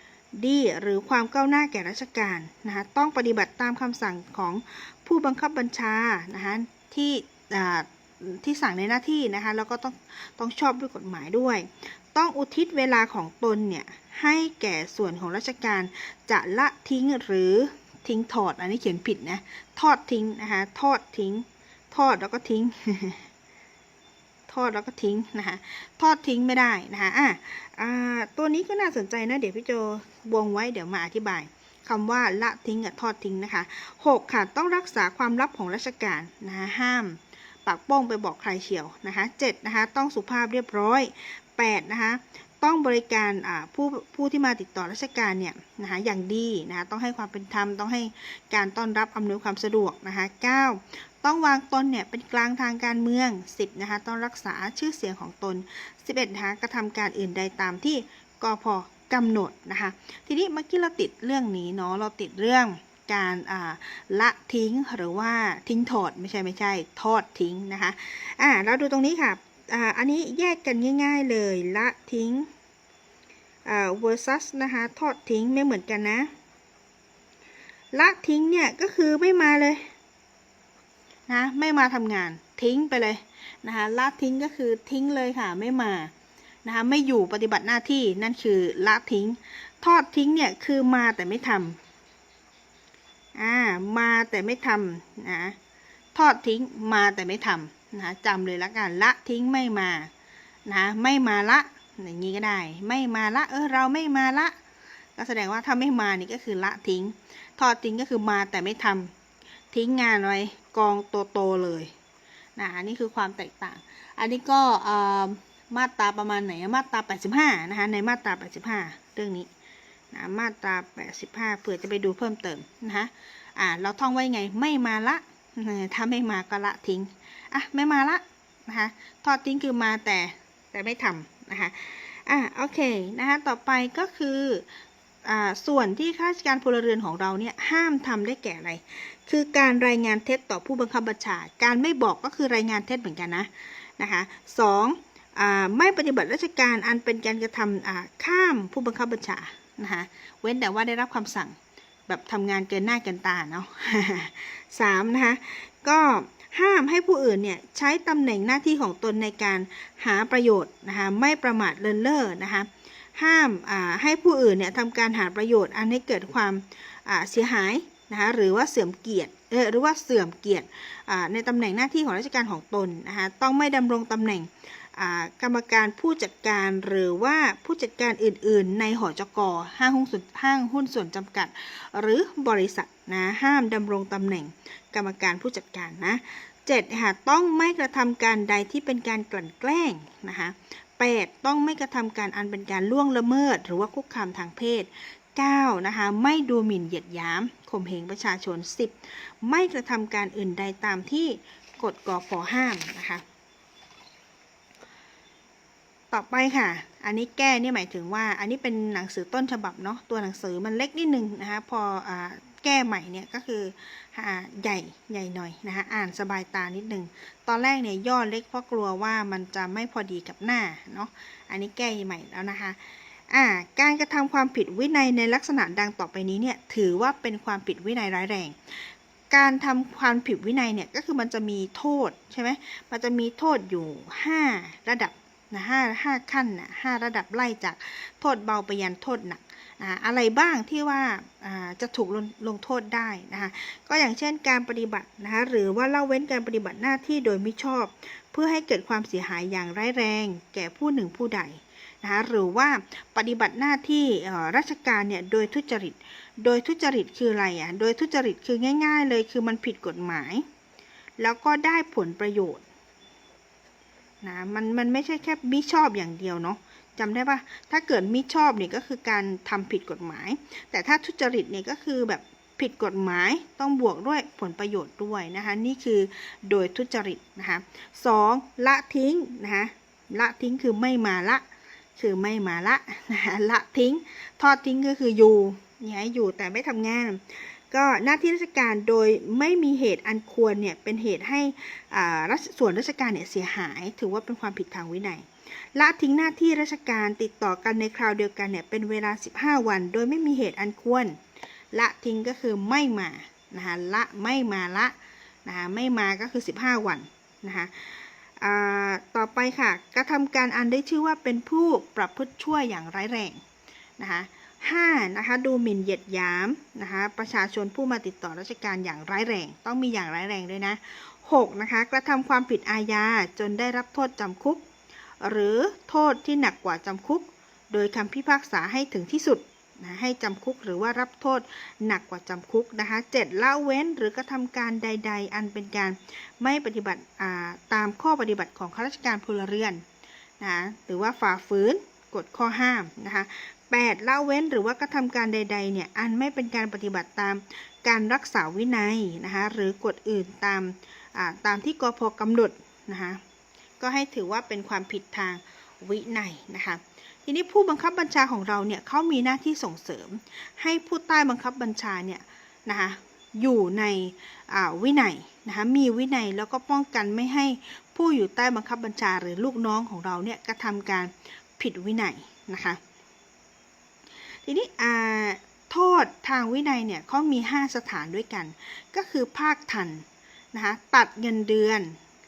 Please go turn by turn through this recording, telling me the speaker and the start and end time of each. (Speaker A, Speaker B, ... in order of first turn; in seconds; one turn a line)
Speaker A: 0.4-23.3
Speaker A: 24.5-72.5
Speaker A: 73.7-76.3
Speaker A: 77.9-79.9
Speaker A: 81.3-86.1
Speaker A: 86.6-91.8
Speaker A: 93.3-95.6
Speaker A: 96.1-100.1
Speaker A: 100.7-104.5
Speaker A: 105.2-109.1
Speaker A: 109.7-111.9
Speaker A: 112.6-119.5
Speaker A: 120.1-134.7
Speaker A: 135.2-151.6
Speaker A: 152.1-203.2
Speaker A: 206.1-222.8
Speaker A: 223.3-260.4
Speaker A: 261.2-262.6
Speaker A: 264.2-281.4
Speaker A: 282.0-301.2
Speaker A: 301.7-313.4
Speaker A: 314.0-324.7
Speaker A: 325.2-339.8
Speaker A: 340.4-353.2
Speaker A: 353.8-372.8
Speaker A: 374.4-382.0